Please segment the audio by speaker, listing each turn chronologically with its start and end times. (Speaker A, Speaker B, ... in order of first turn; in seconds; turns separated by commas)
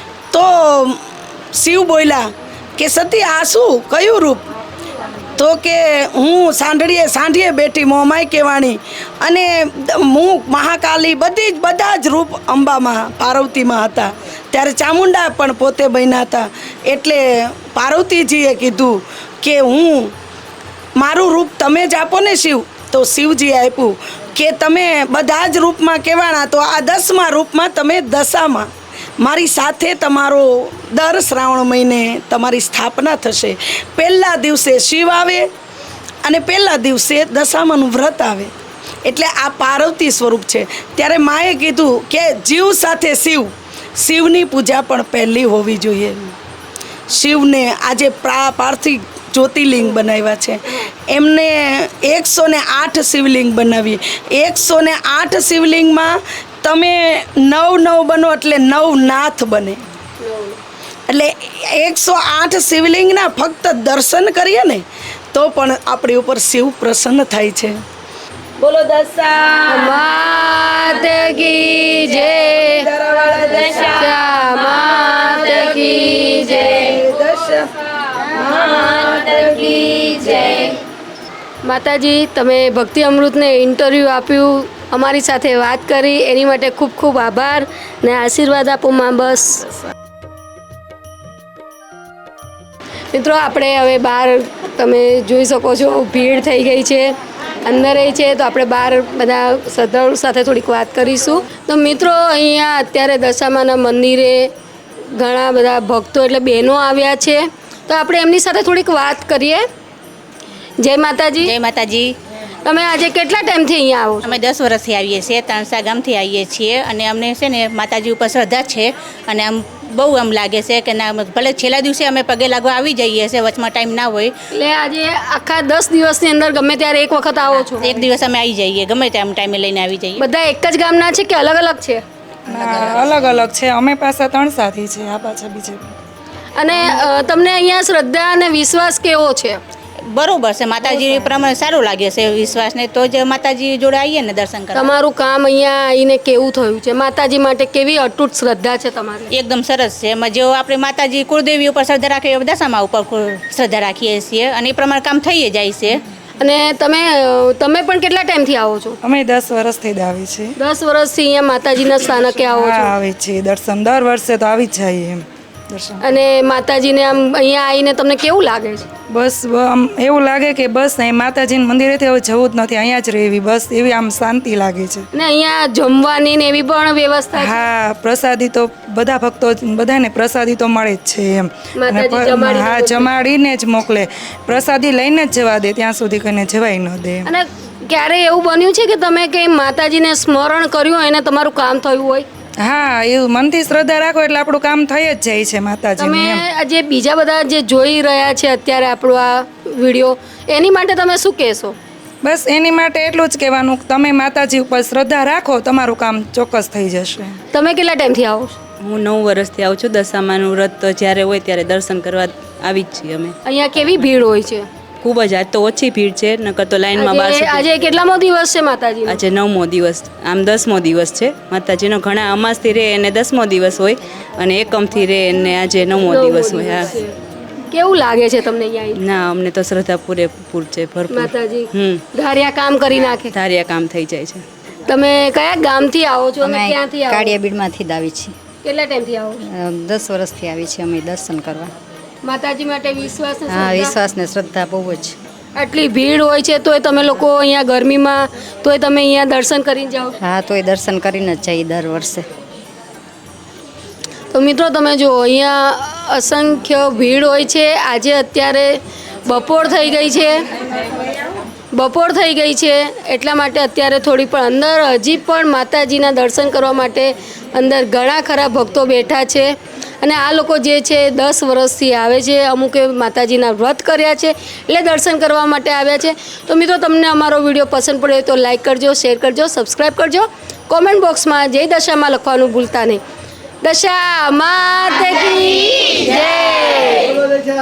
Speaker A: 0.3-1.0, Speaker A: 1.5-4.5, Speaker A: 5.4-20.1, Speaker A: 21.0-35.5, Speaker A: 36.2-38.5, Speaker A: 39.0-46.4, Speaker A: 47.1-59.8, Speaker B: 60.2-60.6, Speaker A: 61.1-67.8, Speaker A: 68.6-69.9, Speaker B: 69.7-72.9, Speaker A: 72.8-74.1, Speaker B: 73.9-77.1, Speaker A: 75.0-80.7, Speaker B: 81.6-89.7, Speaker B: 93.1-97.1, Speaker B: 97.6-104.5, Speaker B: 105.1-109.6, Speaker B: 110.8-111.5, Speaker C: 111.4-112.1, Speaker B: 112.7-114.3, Speaker C: 114.2-124.3, Speaker B: 124.5-128.1, Speaker C: 127.5-130.2, Speaker B: 130.2-132.0, Speaker D: 132.5-135.8, Speaker B: 136.6-139.6, Speaker C: 140.1-144.9, Speaker B: 144.7-149.3, Speaker C: 149.3-156.0, Speaker B: 156.4-159.0, Speaker D: 159.0-160.6, Speaker B: 160.6-162.9, Speaker D: 162.4-166.0, Speaker B: 166.0-168.9, Speaker D: 169.1-175.1, Speaker B: 175.1-177.6, Speaker D: 177.4-187.3, Speaker B: 181.8-183.1, Speaker B: 187.3-192.3, Speaker D: 192.6-196.4, Speaker B: 196.0-201.8, Speaker D: 202.2-207.4, Speaker B: 207.5-208.6, Speaker E: 208.8-213.4, Speaker B: 213.5-214.7, Speaker E: 215.0-217.7, Speaker B: 216.9-219.2, Speaker E: 219.1-226.9, Speaker B: 226.0-227.1, Speaker B: 227.7-229.0, Speaker E: 229.0-232.0, Speaker B: 231.1-233.3, Speaker E: 233.3-234.4, Speaker B: 234.9-237.4, Speaker F: 236.4-238.3, Speaker B: 238.6-239.4, Speaker F: 239.4-241.7, Speaker B: 242.2-244.0, Speaker F: 243.5-245.2, Speaker B: 245.6-250.2, Speaker F: 250.2-252.3, Speaker B: 254.3-260.5, Speaker B: 261.7-283.0, Speaker B: 283.6-287.3